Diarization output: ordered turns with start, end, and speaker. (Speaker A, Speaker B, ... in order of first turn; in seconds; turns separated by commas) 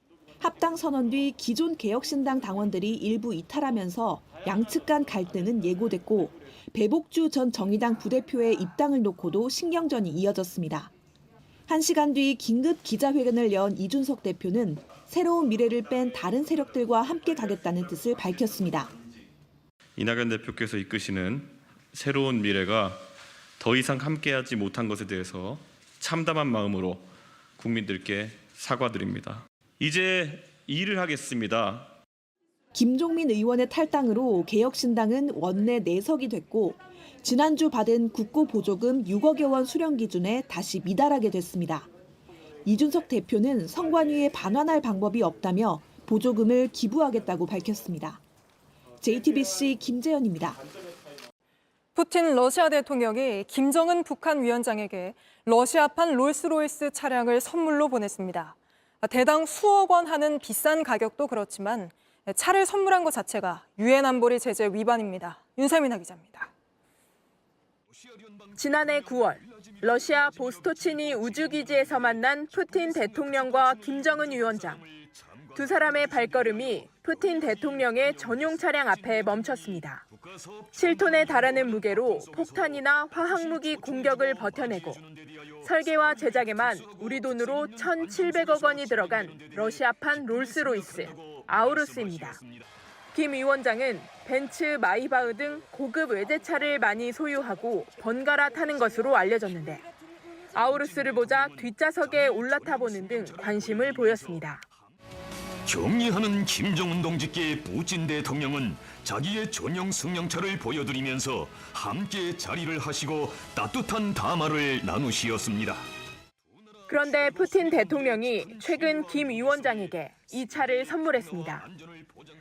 Speaker A: 0.4-10.9, Speaker A: 11.7-18.9, Speaker B: 20.0-23.1, Speaker B: 23.6-27.1, Speaker B: 27.6-31.9, Speaker A: 32.7-41.9, Speaker A: 42.7-48.2, Speaker A: 49.0-50.6, Speaker C: 52.0-66.5, Speaker D: 68.4-69.2, Speaker E: 68.5-74.8, Speaker D: 70.0-72.0, Speaker D: 72.6-79.1, Speaker E: 75.5-80.0, Speaker D: 79.7-92.7, Speaker E: 80.8-85.0, Speaker E: 85.6-92.4, Speaker E: 93.1-99.8, Speaker E: 100.5-104.7, Speaker D: 100.8-104.3, Speaker D: 105.7-115.8, Speaker E: 116.9-121.7, Speaker D: 116.9-122.3